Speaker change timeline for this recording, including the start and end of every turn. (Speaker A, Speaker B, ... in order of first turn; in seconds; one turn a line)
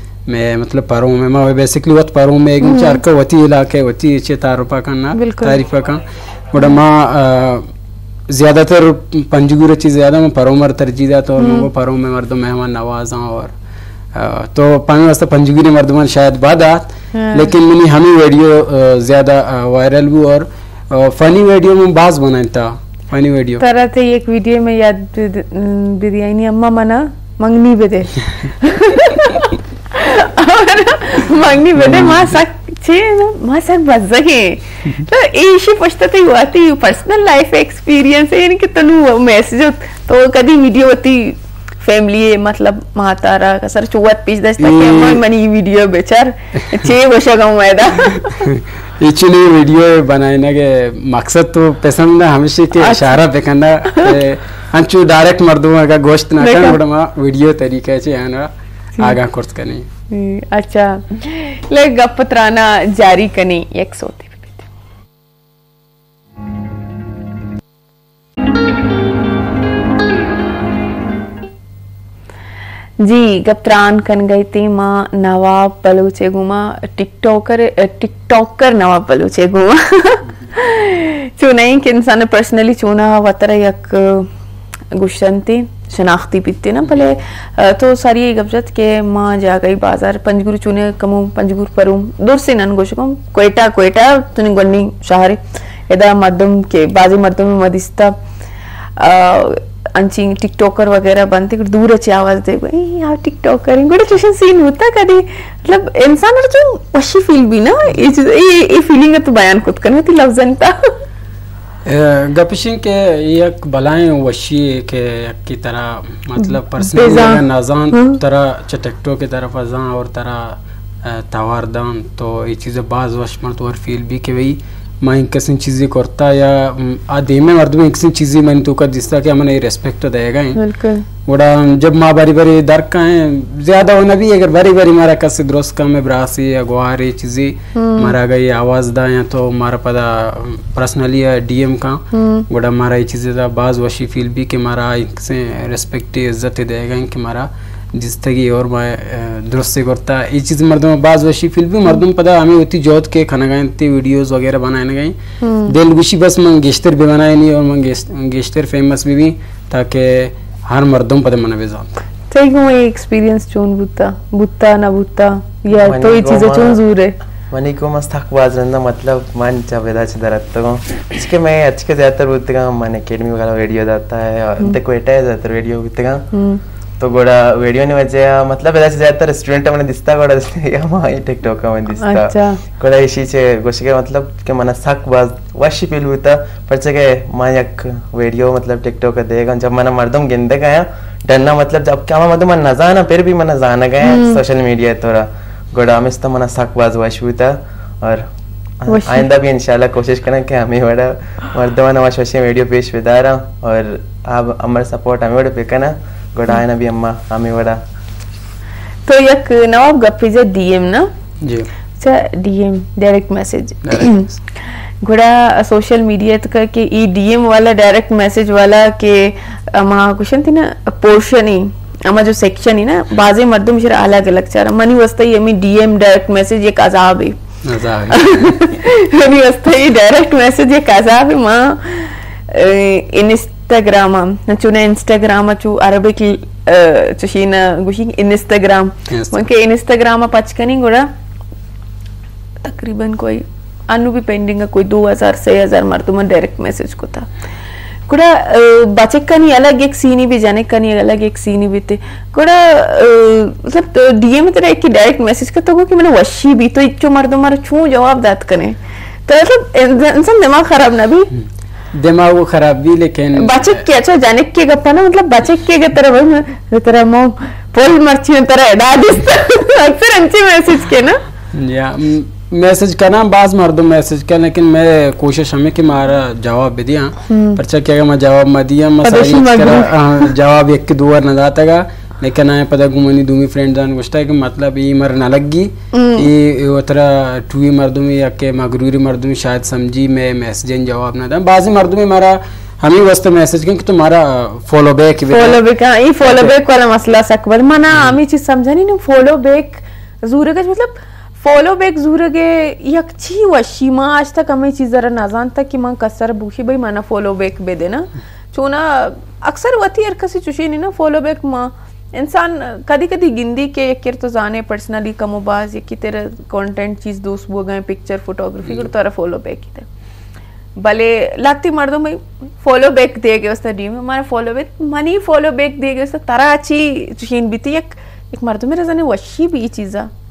Speaker A: 0.3-7.7
Speaker B: 2.6-3.0
Speaker B: 5.1-5.6
Speaker A: 8.3-13.5
Speaker B: 11.4-11.7
Speaker A: 14.1-23.6
Speaker B: 17.1-17.5
Speaker B: 23.6-48.5
Speaker A: 31.8-32.3
Speaker A: 44.6-45.2
Speaker A: 48.2-59.9
Speaker B: 52.8-53.2
Speaker B: 53.9-54.2
Speaker B: 56.4-56.8
Speaker B: 60.1-64.7
Speaker B: 73.0-84.3
Speaker B: 84.9-98.2
Speaker B: 99.0-110.9
Speaker A: 111.8-130.6
Speaker B: 116.4-118.2
Speaker B: 130.6-131.1
Speaker A: 131.3-162.0
Speaker B: 137.8-138.2
Speaker B: 142.1-142.5
Speaker B: 155.4-155.8
Speaker B: 162.3-167.2
Speaker C: 165.8-166.8
Speaker C: 167.5-176.2
Speaker B: 176.3-176.6
Speaker C: 177.0-198.3
Speaker B: 182.0-182.6
Speaker B: 194.0-194.4
Speaker C: 198.8-207.8
Speaker B: 198.9-199.3
Speaker B: 209.1-211.1
Speaker A: 211.4-211.7
Speaker B: 212.0-227.4
Speaker A: 213.8-214.3
Speaker A: 227.6-228.6
Speaker B: 228.1-241.1
Speaker A: 239.1-239.4
Speaker B: 242.6-247.3
Speaker B: 248.1-261.3
Speaker A: 261.3-263.8
Speaker B: 263.4-271.2
Speaker A: 271.5-295.6
Speaker B: 277.3-277.6
Speaker B: 279.0-280.3
Speaker B: 285.9-286.3
Speaker B: 295.3-319.9
Speaker A: 296.2-296.5
Speaker A: 297.9-298.2
Speaker B: 320.8-330.1